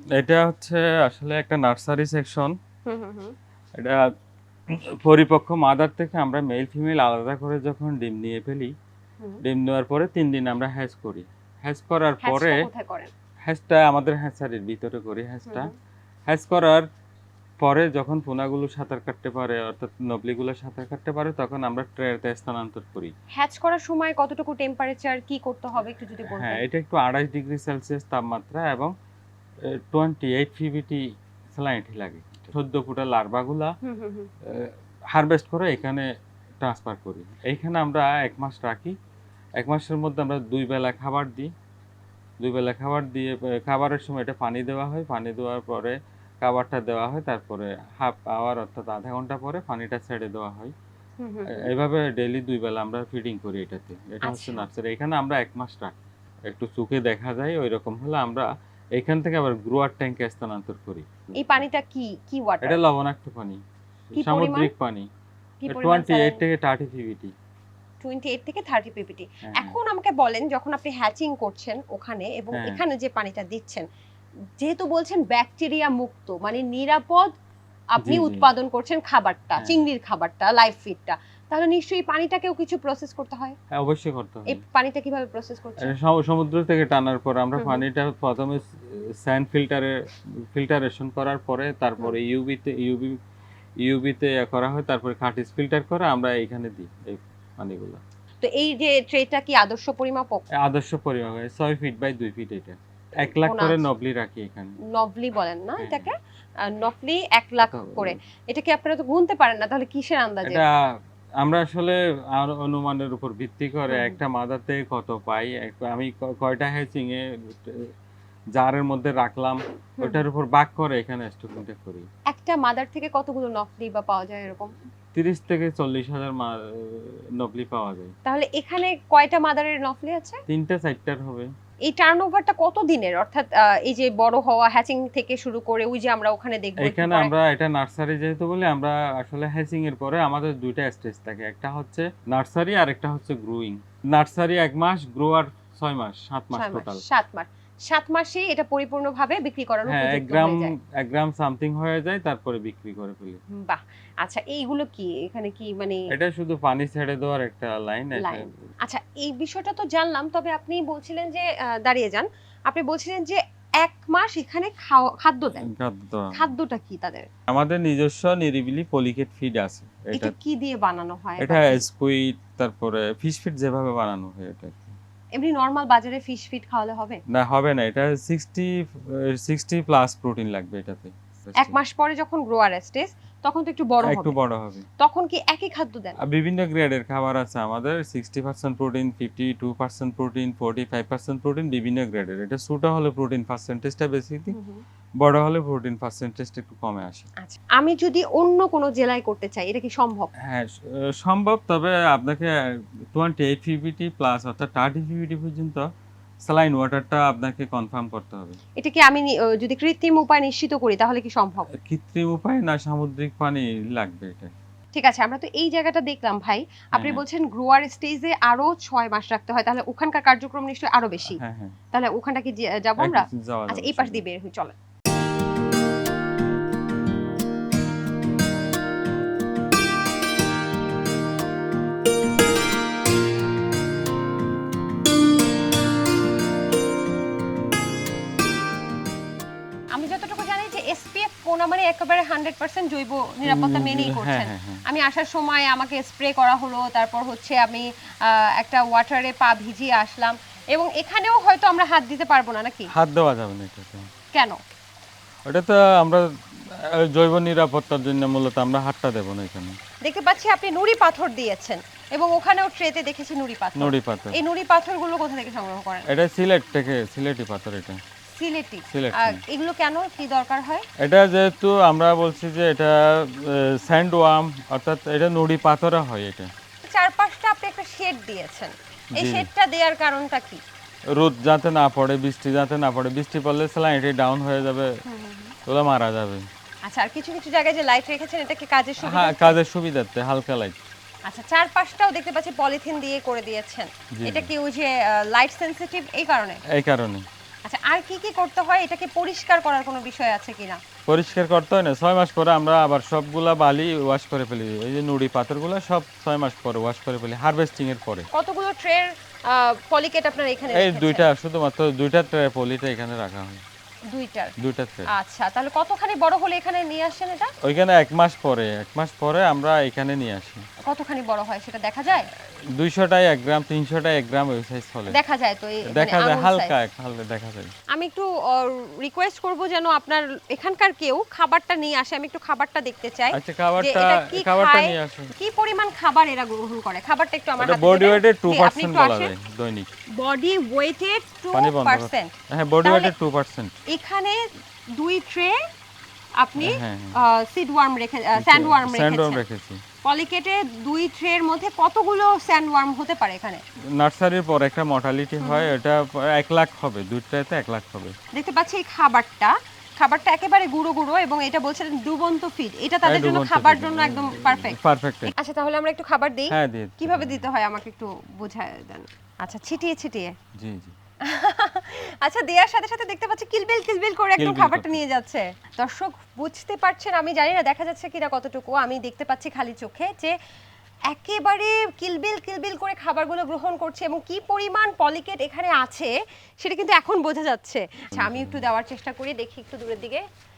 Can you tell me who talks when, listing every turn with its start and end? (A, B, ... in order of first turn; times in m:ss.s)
0:00.2-0:02.5 A
0:02.9-0:03.3 B
0:03.8-0:04.1 A
0:04.7-0:08.7 A
0:09.4-0:12.6 A
0:12.2-0:13.1 B
0:13.5-0:15.7 A
0:15.5-0:15.7 B
0:16.3-0:16.8 A
0:17.6-0:23.1 A
0:23.3-0:26.6 B
0:26.2-0:28.9 A
0:29.7-0:31.0 A
0:31.5-0:33.7 A
0:33.8-0:34.3 B
0:34.4-0:36.1 A
0:36.6-0:39.0 A
0:39.6-0:41.5 A
0:42.4-0:50.7 A
0:51.2-0:51.7 B
0:51.5-1:01.6 A
0:54.2-0:54.7 B
1:01.3-1:02.8 B
1:02.6-1:05.1 A
1:04.1-1:04.7 B
1:05.6-1:06.4 B
1:05.7-1:07.3 A
1:08.0-1:13.8 B
1:09.4-1:09.8 A
1:12.5-1:12.8 A
1:14.6-1:17.3 B
1:17.9-1:23.6 B
1:18.0-1:18.5 A
1:19.6-1:19.8 A
1:23.7-1:24.6 A
1:24.5-1:25.9 B
1:25.8-1:29.9 A
1:27.6-1:27.8 B
1:30.5-1:33.2 A
1:33.8-1:38.0 A
1:38.4-1:40.4 B
1:40.6-1:44.8 A
1:43.2-1:43.8 B
1:44.9-1:50.6 B
1:45.8-1:46.1 A
1:47.6-1:48.2 A
1:50.4-1:50.8 A
1:51.4-1:57.9 A
1:53.9-1:54.2 B
1:58.5-2:02.1 A
2:02.3-2:04.7 B
2:05.1-2:08.1 A
2:08.2-2:10.4 B
2:10.5-2:11.5 A
2:11.8-2:17.3 B
2:16.8-2:27.0 A
2:26.5-2:30.7 B
2:29.8-2:33.4 A
2:33.5-2:36.1 B
2:36.1-2:38.5 A
2:38.2-2:45.7 B
2:45.6-2:46.5 A
2:46.3-2:47.3 B
2:47.5-2:50.3 A
2:50.1-2:51.8 B
2:51.4-2:55.0 A
2:55.4-2:57.2 B
2:57.3-3:01.8 A
3:01.6-3:04.4 B
3:04.0-3:04.9 A
3:05.0-3:06.2 B
3:06.2-3:14.6 A
3:14.5-3:14.8 B
3:15.2-3:17.3 A
3:17.4-3:20.3 B
3:20.4-3:25.9 A
3:26.4-3:28.6 A
3:28.8-3:31.7 B
3:31.7-3:34.5 A
3:34.9-3:41.4 B
3:36.9-3:37.2 A
3:41.4-3:41.8 A
3:41.9-3:44.7 B
3:43.0-3:44.2 A
3:59.9-4:12.9 B
4:03.4-4:04.8 A
4:12.9-4:14.1 A
4:14.3-4:14.6 B
4:15.4-4:19.8 A
4:20.0-4:26.1 B
4:23.8-4:24.4 A
4:26.1-4:28.0 A
4:28.3-4:30.8 B
4:28.9-4:29.4 A
4:31.0-4:36.5 A
4:36.8-4:40.6 B
4:39.1-4:39.5 A
4:41.1-4:45.0 A
4:45.1-4:45.5 B
4:45.6-4:46.4 A
4:46.8-4:49.6 B
4:49.0-4:50.8 A
4:51.2-4:56.6 B
4:54.2-4:54.5 A
4:56.7-4:57.3 A
4:57.6-5:00.8 B
5:01.1-5:08.3 A
5:08.3-5:11.3 B
5:10.7-5:13.6 A
5:14.1-5:14.5 B
5:14.6-5:15.1 A
5:15.1-5:17.5 B
5:17.6-5:20.6 A
5:20.8-5:22.3 B
5:22.7-5:25.2 A
5:25.1-5:26.7 B
5:25.9-5:27.7 A
5:27.9-5:39.3 B
5:33.3-5:35.3 A
5:37.6-5:39.9 A
5:40.1-5:43.1 B
5:41.5-5:43.7 A
5:43.9-5:45.6 B
5:46.4-5:49.4 B
5:46.6-5:47.2 A
5:48.4-5:49.8 A
5:50.0-5:53.6 B
5:53.9-5:58.2 A
5:55.4-5:55.7 B
5:58.3-6:10.3 B
6:03.0-6:05.3 A
6:06.5-6:07.4 A
6:10.6-6:10.9 A
6:11.2-6:20.3 B
6:14.4-6:15.0 A
6:21.1-6:30.2 B
6:28.1-6:28.6 A